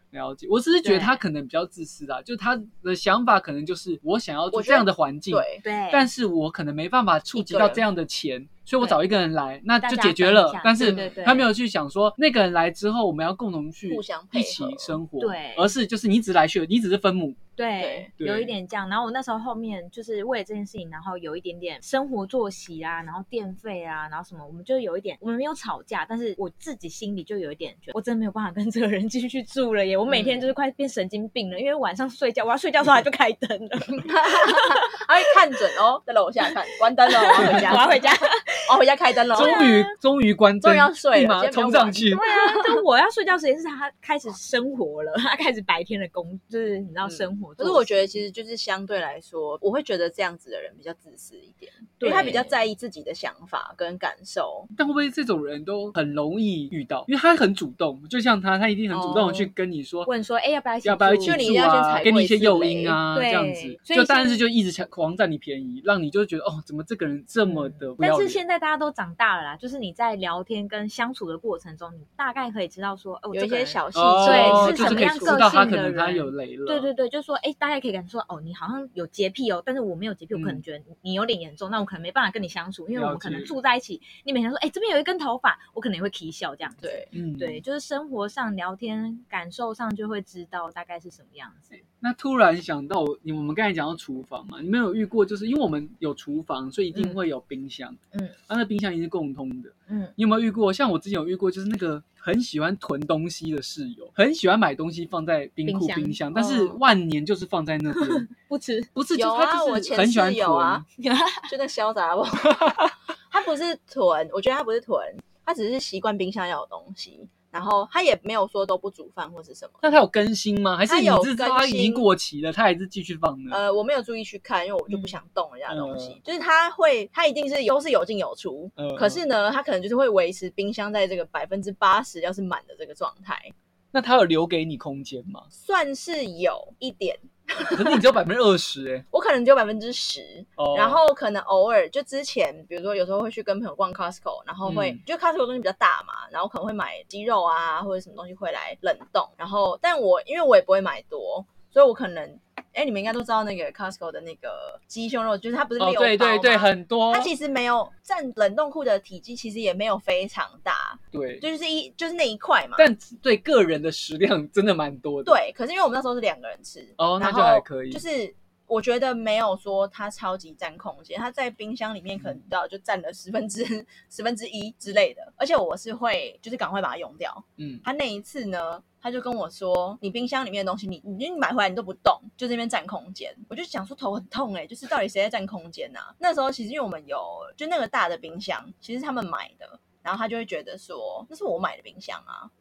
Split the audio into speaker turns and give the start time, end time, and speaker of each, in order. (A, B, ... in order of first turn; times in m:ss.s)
0:00.1-0:17.4 A
0:00.8-0:01.2 B
0:04.5-0:05.6 C
0:05.6-0:06.1 B
0:07.4-0:07.8 C
0:08.8-0:09.0 B
0:09.8-0:11.5 B
0:10.8-0:11.2 C
0:13.9-0:15.0 C
0:15.2-0:15.7 B
0:17.6-0:34.9 B
0:17.8-0:18.1 C
0:18.2-0:18.5 A
0:34.1-0:39.6 C
0:37.1-0:38.7 B
0:37.4-0:37.7 A
0:39.3-0:39.9 B
0:39.4-0:42.2 A
0:40.6-0:42.5 C
0:42.1-0:48.2 B
0:47.6-0:54.7 C
0:52.0-0:52.5 B
0:54.8-1:00.1 A
0:58.9-0:59.5 C
1:00.1-1:01.6 B
1:00.8-1:08.4 A
1:01.2-1:03.0 C
1:03.1-1:04.4 B
1:07.5-1:31.8 B
1:13.3-1:15.6 C
1:14.0-1:16.9 A
1:20.3-1:20.6 A
1:22.9-1:23.5 A
1:26.8-1:27.1 C
1:27.1-1:27.6 A
1:32.0-1:48.3 A
1:36.9-1:37.2 B
1:39.9-1:40.2 B
1:45.7-1:46.8 B
1:48.0-1:48.9 B
1:49.0-1:50.8 A
1:49.2-1:50.8 C
1:51.0-1:51.5 B
1:51.4-1:52.7 C
1:52.4-1:52.8 A
1:53.3-1:59.9 C
1:59.8-2:03.6 A
2:00.9-2:02.1 C
2:03.5-2:13.5 C
2:04.9-2:05.2 B
2:05.7-2:06.2 A
2:08.8-2:09.2 A
2:13.9-2:15.5 A
2:15.5-2:18.0 C
2:17.7-2:19.0 A
2:19.1-2:42.9 C
2:20.6-2:21.0 A
2:24.6-2:25.0 A
2:35.8-2:37.3 A
2:41.1-2:41.4 A
2:42.8-2:45.4 A
2:45.2-3:12.5 C
2:47.0-2:48.0 A
2:57.6-2:57.8 A